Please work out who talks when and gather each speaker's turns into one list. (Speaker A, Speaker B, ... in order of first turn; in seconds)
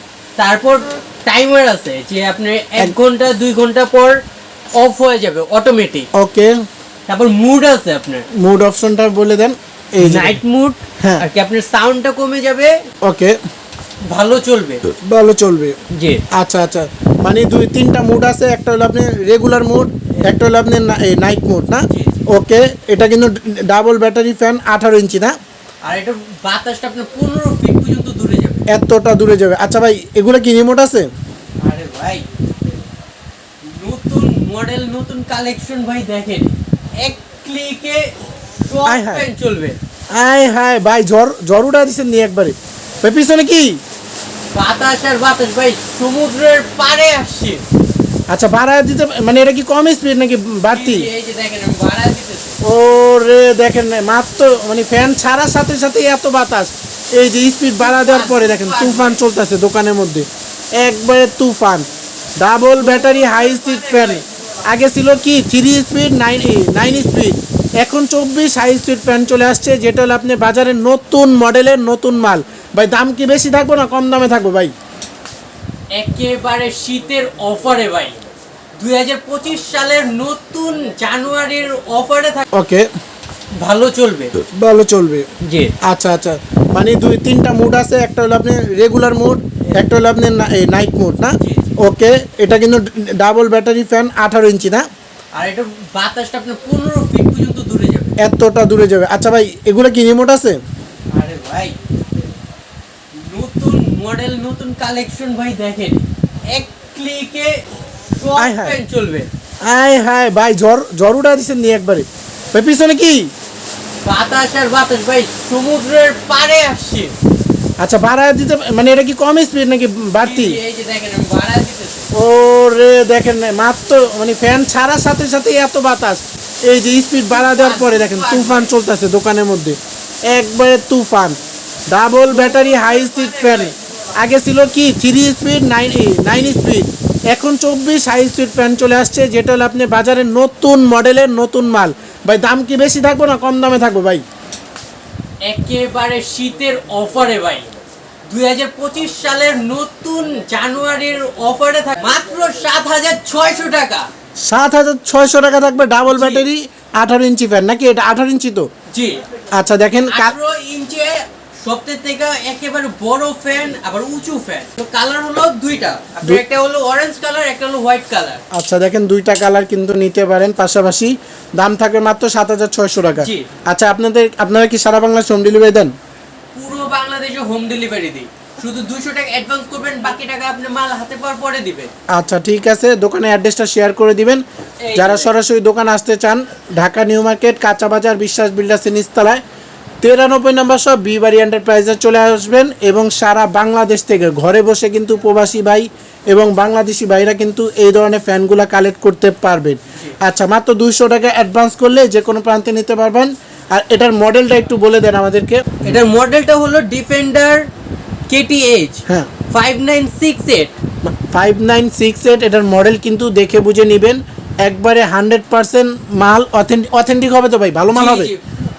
Speaker A: 0.4-4.2, 4.7-6.1, 7.1-8.2, 10.0-12.8, 14.1-14.8, 15.9-16.2, 21.9-22.2, 25.8-28.6, 31.6-32.3, 33.6-39.8, 44.5-47.6, 50.7-52.6, 57.8-59.2, 62.8-64.2, 75.9-78.2, 78.8-82.5, 83.6-84.3, 85.4-85.7, 91.4-91.8, 95.3-98.2, 101.1-101.8, 103.1-109.3, 114.0-117.1, 120.2-122.1, 127.3-128.7, 132.3-133.7, 145.4-147.7, 148.3-154.1, 156.1-156.4, 158.9-159.2, 160.0-168.4, 173.2-173.5, 176.5-181.9, 184.8-185.3, 205.8-207.7, 208.3-210.8, 217.9-218.4
Speaker B: 6.1-6.5, 8.3-10.4, 11.0-11.2, 13.0-13.4, 14.9-15.8, 16.3-25.3, 28.7-31.1, 38.9-39.3, 40.1-43.8, 48.3-51.1, 52.6-60.3, 60.8-61.9, 62.4-74.7, 82.5-82.9, 84.4-85.3, 85.8-94.8, 98.2-100.6, 108.4-108.8, 109.6-113.3, 117.8-120.6, 122.1-129.8, 130.3-131.4, 131.9-144.2, 154.4-158.7, 159.5-160.4, 168.5-175.9, 182.1-184.4, 184.9-189.4, 190.0-206.0, 211.0-218.3